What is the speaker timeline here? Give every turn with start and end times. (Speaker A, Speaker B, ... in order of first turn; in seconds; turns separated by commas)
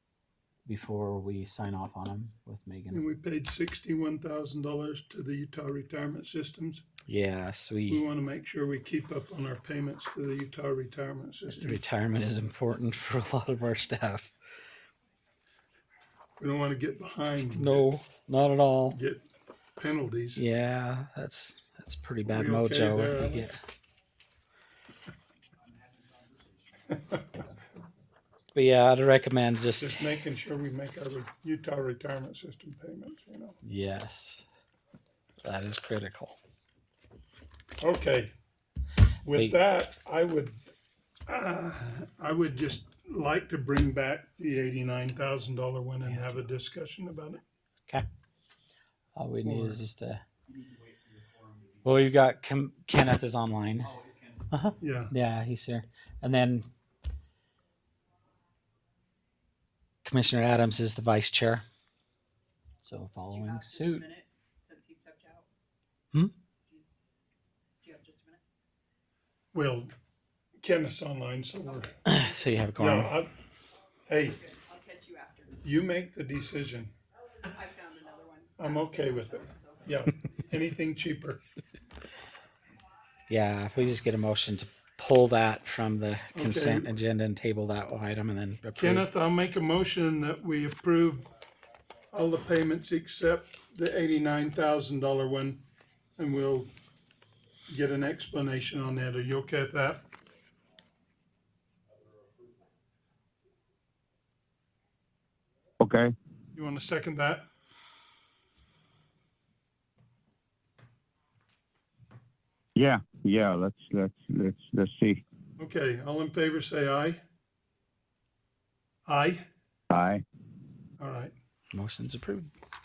Speaker A: 0.7-3.0, Speaker B: 2.9-6.8, Speaker A: 7.1-8.0, Speaker B: 7.9-11.8, Speaker A: 11.5-14.3, Speaker B: 16.4-17.9, Speaker A: 17.6-19.0, Speaker B: 18.9-19.2, Speaker B: 19.8-20.4, Speaker A: 20.4-23.6, Speaker B: 22.3-23.6, Speaker A: 28.6-30.1, Speaker B: 29.8-33.6, Speaker A: 33.6-34.5, Speaker A: 35.4-36.4, Speaker B: 37.8-38.3, Speaker B: 39.2-40.6, Speaker B: 41.3-47.4, Speaker A: 46.0-46.5, Speaker A: 49.2-50.2, Speaker B: 49.4-49.8, Speaker A: 51.8-54.0, Speaker A: 54.5-56.7, Speaker B: 54.8-55.1, Speaker A: 60.0-61.6, Speaker A: 62.8-64.0, Speaker C: 63.3-65.5, Speaker C: 67.8-68.4, Speaker B: 69.5-69.9, Speaker B: 70.6-72.0, Speaker A: 72.0-73.1, Speaker B: 72.8-73.3, Speaker B: 74.1-74.4, Speaker C: 74.2-75.6, Speaker B: 75.6-76.9, Speaker C: 77.4-79.9, Speaker B: 78.6-81.4, Speaker A: 83.3-89.1, Speaker B: 86.3-86.9, Speaker B: 88.8-91.3, Speaker B: 92.1-95.6, Speaker B: 96.2-96.7, Speaker B: 97.7-100.0, Speaker D: 105.8-106.1, Speaker B: 106.5-107.5, Speaker D: 112.8-115.2, Speaker B: 115.6-117.2, Speaker B: 119.1-119.5, Speaker D: 119.9-120.2, Speaker B: 121.0-121.3, Speaker A: 121.7-122.5